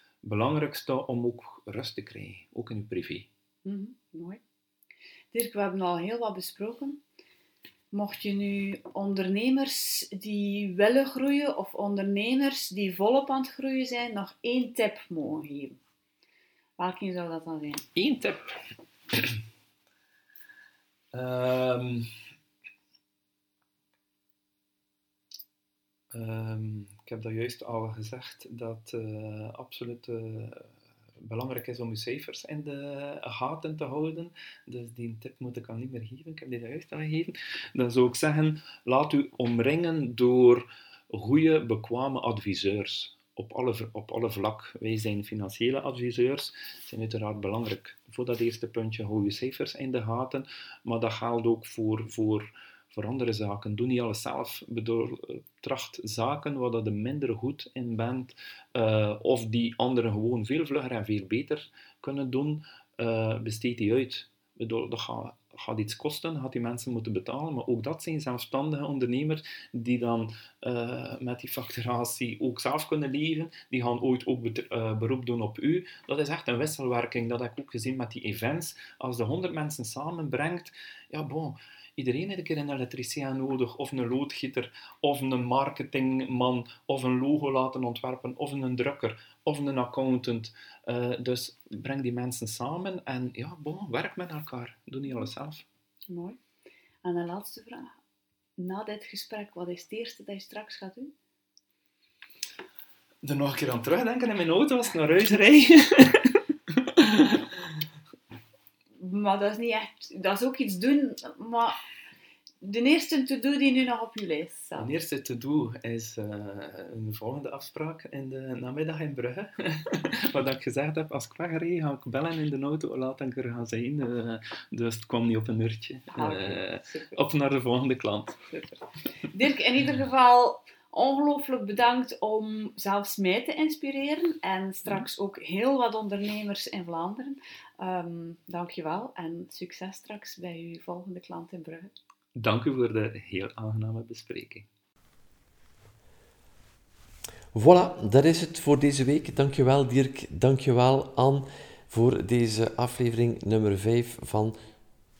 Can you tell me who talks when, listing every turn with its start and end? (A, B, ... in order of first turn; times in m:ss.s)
0:00.2-0:03.3 A
0:03.6-0:04.4 B
0:05.3-0:07.0 B
0:07.9-0:15.8 B
0:16.8-0:17.8 B
0:17.9-0:18.6 A
0:21.1-0:22.1 A
0:26.1-0:30.7 A
0:31.2-1:35.6 A
1:36.1-1:36.4 B
1:37.0-1:38.0 B
1:38.6-1:41.1 B
1:43.2-1:47.4 A
1:49.0-1:51.8 B
1:52.6-1:54.9 B
1:54.8-2:08.6 A
2:06.1-2:07.2 B
2:09.3-2:21.9 B
2:22.4-2:24.7 A
2:27.5-2:34.5 C